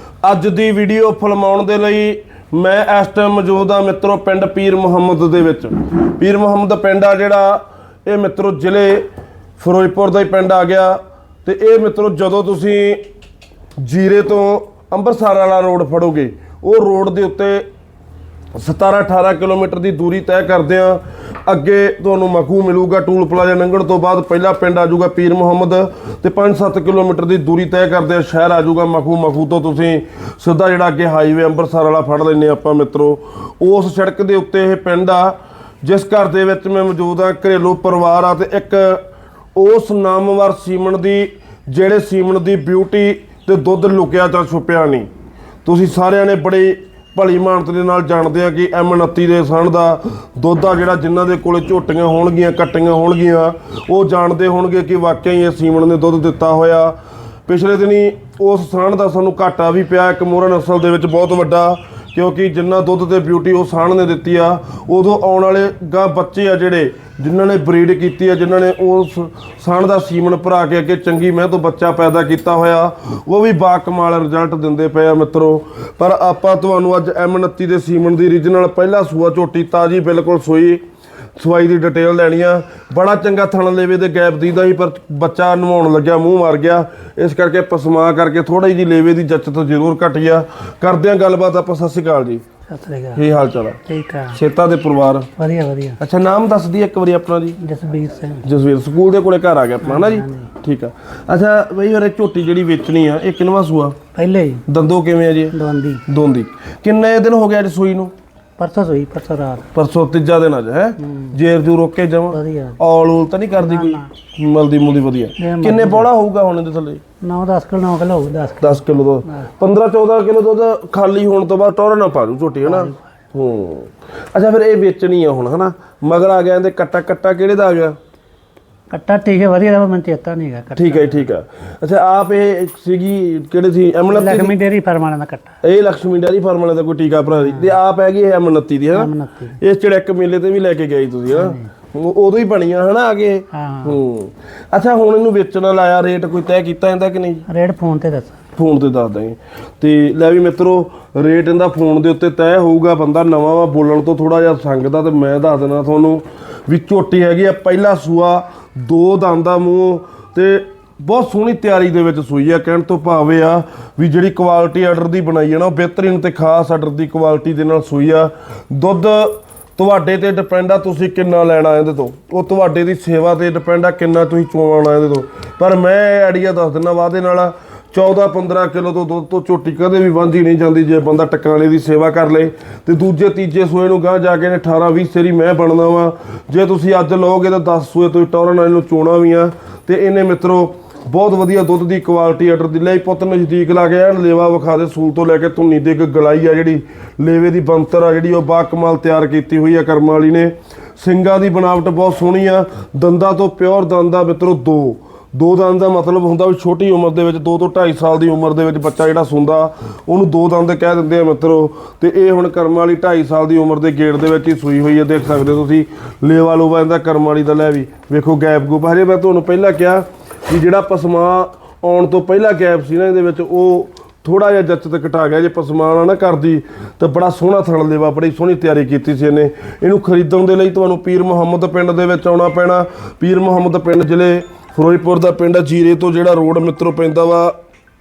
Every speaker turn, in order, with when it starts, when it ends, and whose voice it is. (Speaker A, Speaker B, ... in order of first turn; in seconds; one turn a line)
Speaker A: 0.2-9.1
Speaker A: 9.6-13.0
Speaker A: 13.8-17.6
Speaker A: 18.5-39.0
Speaker A: 39.5-45.1
Speaker A: 45.6-57.0
Speaker A: 57.5-80.8
Speaker A: 81.4-92.4
Speaker B: 92.7-93.2
Speaker A: 93.2-95.3
Speaker B: 93.8-94.4
Speaker B: 95.4-96.0
Speaker A: 96.0-97.6
Speaker B: 97.6-98.5
Speaker A: 98.4-104.0
Speaker B: 99.8-100.5
Speaker B: 104.1-104.6
Speaker A: 104.7-105.5
Speaker B: 105.5-106.0
Speaker A: 106.0-108.1
Speaker B: 108.6-109.7
Speaker A: 109.7-117.0
Speaker B: 111.0-111.3
Speaker B: 112.3-112.8
Speaker B: 113.6-114.1
Speaker B: 115.4-116.1
Speaker B: 117.2-119.3
Speaker A: 118.6-128.0
Speaker B: 122.6-123.0
Speaker B: 128.9-131.3
Speaker A: 130.8-134.5
Speaker B: 134.1-135.6
Speaker A: 135.6-147.5
Speaker B: 137.3-137.7
Speaker B: 138.9-139.6
Speaker B: 141.3-141.7
Speaker B: 143.5-144.0
Speaker B: 147.5-148.4
Speaker A: 148.5-237.6